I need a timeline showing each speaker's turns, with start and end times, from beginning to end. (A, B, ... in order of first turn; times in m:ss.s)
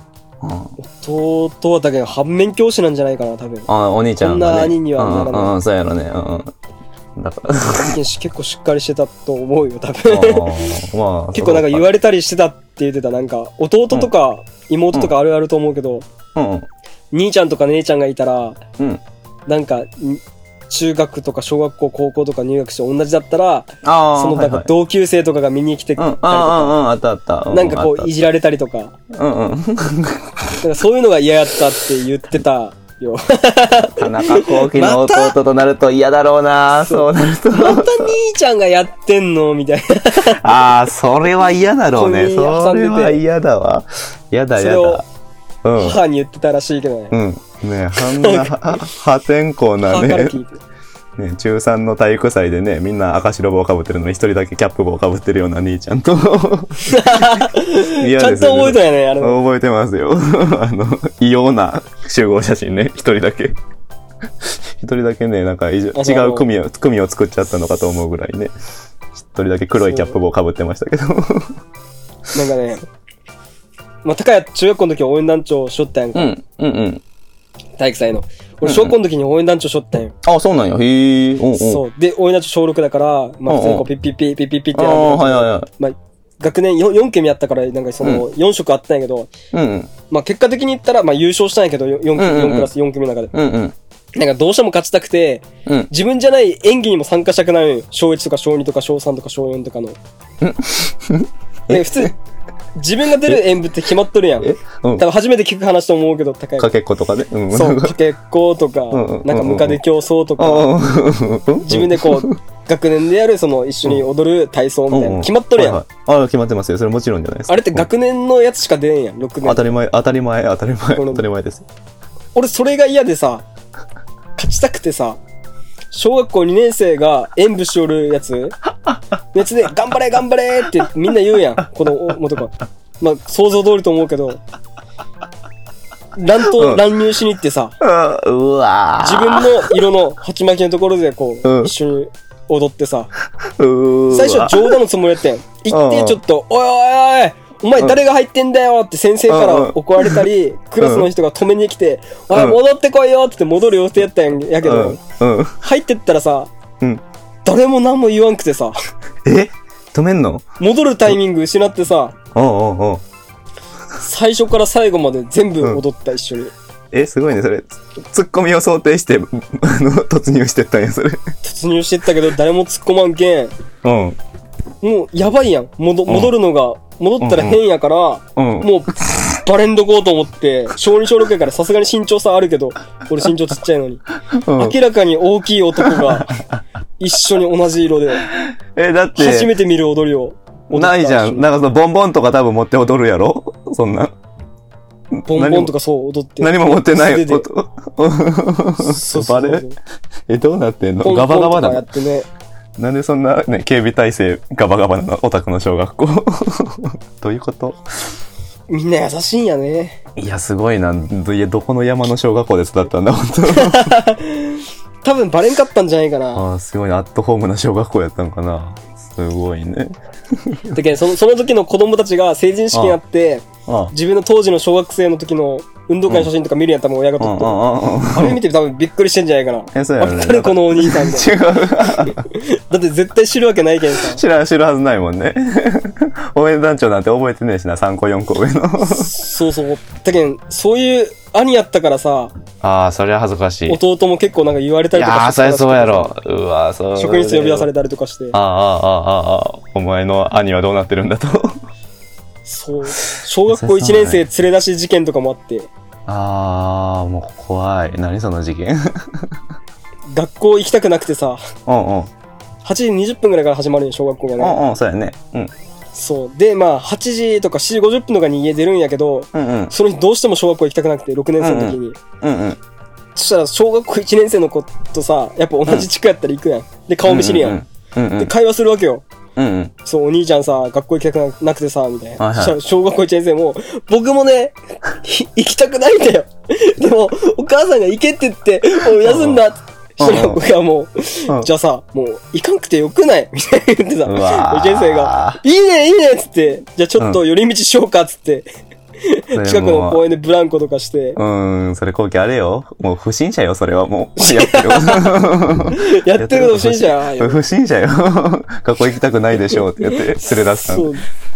0:00.4-0:00.7 A
0:00.8-0:03.7 B
0:03.7-0:06.6 A
0:04.2-0:05.5 B
0:07.2-0:08.0 A
0:07.8-0:10.6 B
0:10.1-0:11.9 A
0:11.3-0:16.1 B
0:16.4-0:16.7 A
0:17.1-0:18.6 B
0:19.5-0:26.8 B
0:23.8-0:24.7 A
0:26.0-0:28.1 A
0:27.5-0:29.0 B
0:29.1-0:30.5 A
0:30.6-0:35.4 B
0:33.9-0:38.1 A
0:36.8-0:40.4 B
0:40.3-0:45.1 A
0:42.0-0:43.2 B
0:44.6-0:45.0 B
0:45.6-0:46.0 A
0:45.8-0:47.2 B
0:47.1-0:50.4 A
0:48.0-0:48.5 B
0:49.8-0:50.6 B
0:51.2-1:03.6 A
0:56.9-0:59.4 B
1:04.4-1:08.5 A
1:06.0-1:06.5 B
1:09.1-1:11.6 A
1:09.8-1:10.2 B
1:12.3-1:12.8 B
1:14.0-1:16.3 B
1:16.2-1:17.0 A
1:17.8-1:20.2 B
1:18.6-1:19.0 A
1:20.2-1:21.8 A
1:21.6-1:29.3 B
1:23.5-1:23.9 A
1:24.7-1:25.7 A
1:29.5-1:29.9 A
1:30.1-1:33.3 B
1:32.2-1:32.7 A
1:33.3-1:33.8 A
1:34.2-1:40.0 B
1:40.4-1:42.1 A
1:41.7-1:42.1 B
1:42.8-1:46.7 B
1:44.4-1:45.1 A
1:46.6-1:47.9 A
1:47.5-1:50.7 B
1:48.9-1:49.8 A
1:50.4-1:52.4 A
1:51.6-1:55.8 B
1:54.9-1:57.9 A
1:57.5-1:59.7 B
1:59.4-2:01.7 A
2:01.0-2:01.2 B
2:02.4-2:03.5 B
2:04.4-2:05.2 B
2:05.9-2:08.6 B
2:09.3-2:14.4 B
2:16.2-2:17.8 B
2:16.5-2:16.9 A
2:17.8-2:19.8 A
2:19.0-2:23.1 B
2:21.4-2:21.7 A
2:23.4-2:24.8 A
2:24.1-2:35.0 B
2:25.7-2:26.2 A
2:29.3-2:30.2 A
2:30.8-2:31.1 A
2:32.3-2:32.6 A
2:34.6-2:35.6 A
2:35.6-2:36.5 B
2:37.4-2:38.8 B
2:39.2-2:40.5 A
2:40.6-2:42.2 B
2:42.3-2:43.0 A
2:44.0-2:46.5 B
2:46.9-2:51.3 A
2:51.4-2:53.5 B
2:53.8-2:54.2 A
2:54.8-3:04.0 B
2:56.1-2:56.4 A
2:57.2-2:57.6 A
2:58.4-2:59.4 A
3:04.3-3:04.8 A
3:04.6-3:06.4 B
3:05.8-3:06.6 A
3:07.0-3:08.3 B
3:08.3-3:09.5 A
3:09.2-3:11.5 B
3:10.7-3:14.1 A
3:15.1-3:15.7 A
3:15.3-3:17.5 B
3:16.4-3:19.7 A
3:18.8-3:19.8 B
3:20.3-3:21.9 A
3:21.0-3:22.3 B
3:22.8-3:28.1 A
3:28.7-3:30.0 B
3:30.2-3:34.0 A
3:33.5-3:36.5 B
3:36.3-3:40.8 A
3:40.7-3:51.3 B
3:42.7-3:43.0 A
3:43.7-3:43.9 A
3:47.2-3:48.4 A
3:49.7-3:52.2 A
3:52.0-3:54.2 B
3:54.0-3:59.1 A
3:58.8-4:02.3 B
4:02.6-4:03.8 A
4:03.7-4:06.1 B
4:04.9-4:07.7 A
4:07.0-4:08.4 B
4:08.3-4:11.6 A
4:12.4-4:15.7 B
4:13.5-4:14.2 A
4:16.1-4:19.4 A
4:20.1-4:21.4 B
4:21.7-4:22.1 A
4:22.6-4:24.6 B
4:24.4-4:25.5 A
4:25.9-4:32.0 B
4:29.3-4:29.7 A
4:31.4-4:32.6 A
4:33.2-4:37.6 B
4:37.1-4:38.3 A
4:38.2-4:39.1 B
4:39.4-4:39.7 A
4:39.8-4:58.5 B
4:42.2-4:42.6 A
4:49.0-4:49.4 A
4:50.0-4:50.4 A
4:54.0-4:55.4 A
4:59.0-5:01.2 B
4:59.3-5:00.0 A
5:01.2-5:10.9 A
5:04.2-5:05.2 B
5:05.7-5:07.4 B
5:09.8-5:11.0 B